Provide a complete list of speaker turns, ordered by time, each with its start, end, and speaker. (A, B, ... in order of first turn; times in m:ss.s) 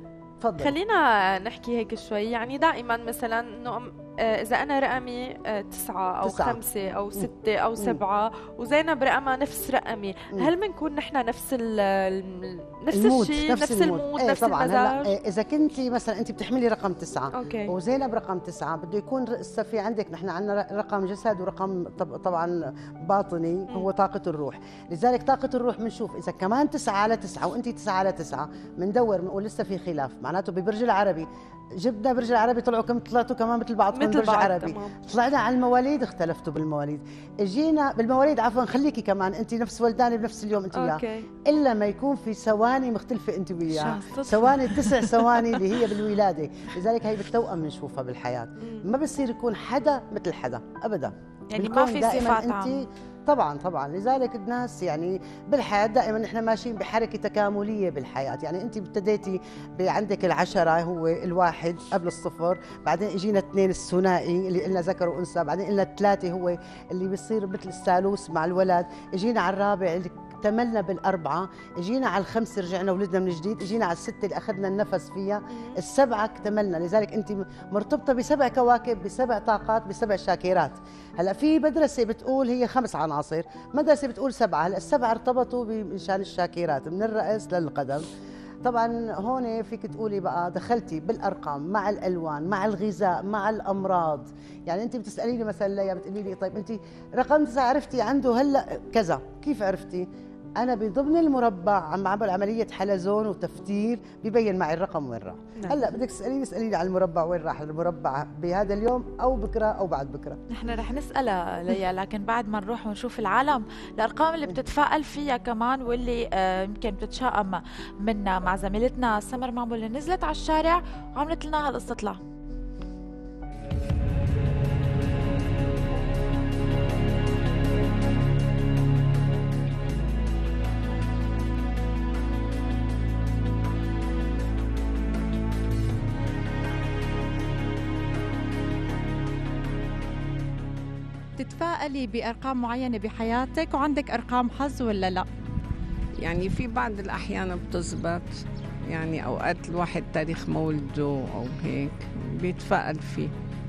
0:00.4-0:00.7 A
0:00.6-0:15.1 B
0:06.2-0:06.6 A
0:12.9-1:28.0 A
0:17.3-0:17.7 B
0:33.9-0:35.0 B
0:40.7-0:41.3 B
0:43.7-0:45.3 C
0:48.6-0:48.9 B
0:51.5-0:52.8 C
1:15.5-1:15.8 B
1:28.6-1:40.1 A
1:40.6-1:50.4 A
1:50.5-2:02.2 C
2:21.4-2:25.2 D
2:26.2-2:33.3 E